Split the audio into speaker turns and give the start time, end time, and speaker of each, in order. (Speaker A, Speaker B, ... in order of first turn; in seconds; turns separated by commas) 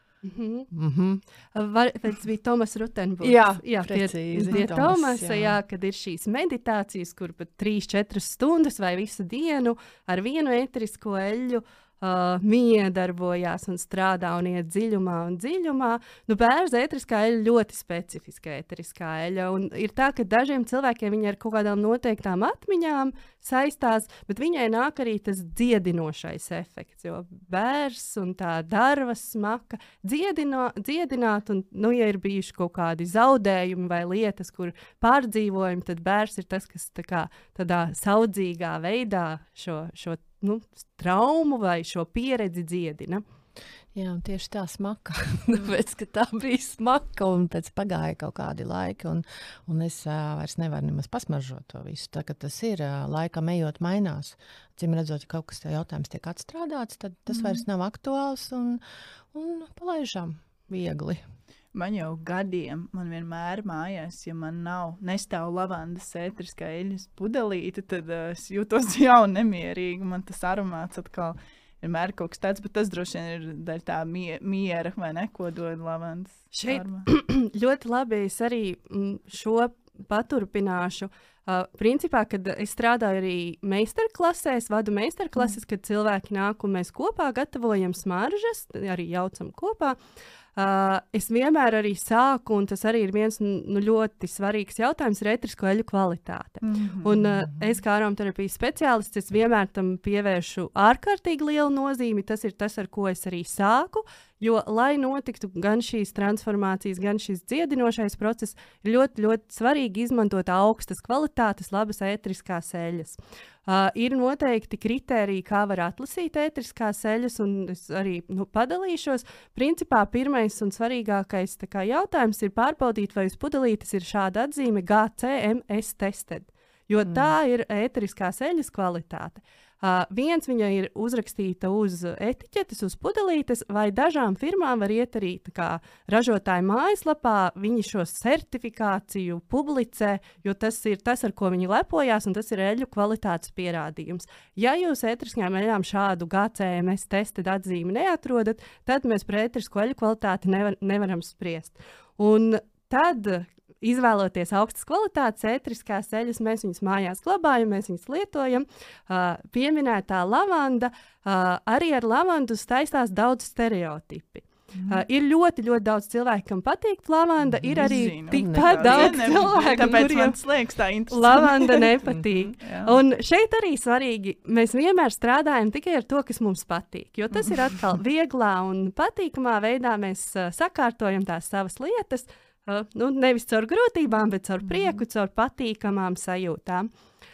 Speaker A: 0.2-0.7, Speaker B: 0.7-1.2, Speaker A: 1.6-43.2, Speaker B: 3.2-5.6, Speaker B: 43.9-58.8, Speaker C: 57.3-57.6, Speaker B: 59.3-61.2, Speaker C: 61.7-77.1, Speaker A: 76.5-90.0, Speaker A: 90.6-170.4, Speaker C: 96.6-97.3, Speaker B: 127.0-127.3, Speaker C: 164.7-165.1, Speaker B: 167.4-169.5, Speaker C: 167.8-171.9, Speaker A: 171.1-186.9, Speaker B: 172.1-172.5, Speaker C: 172.6-173.0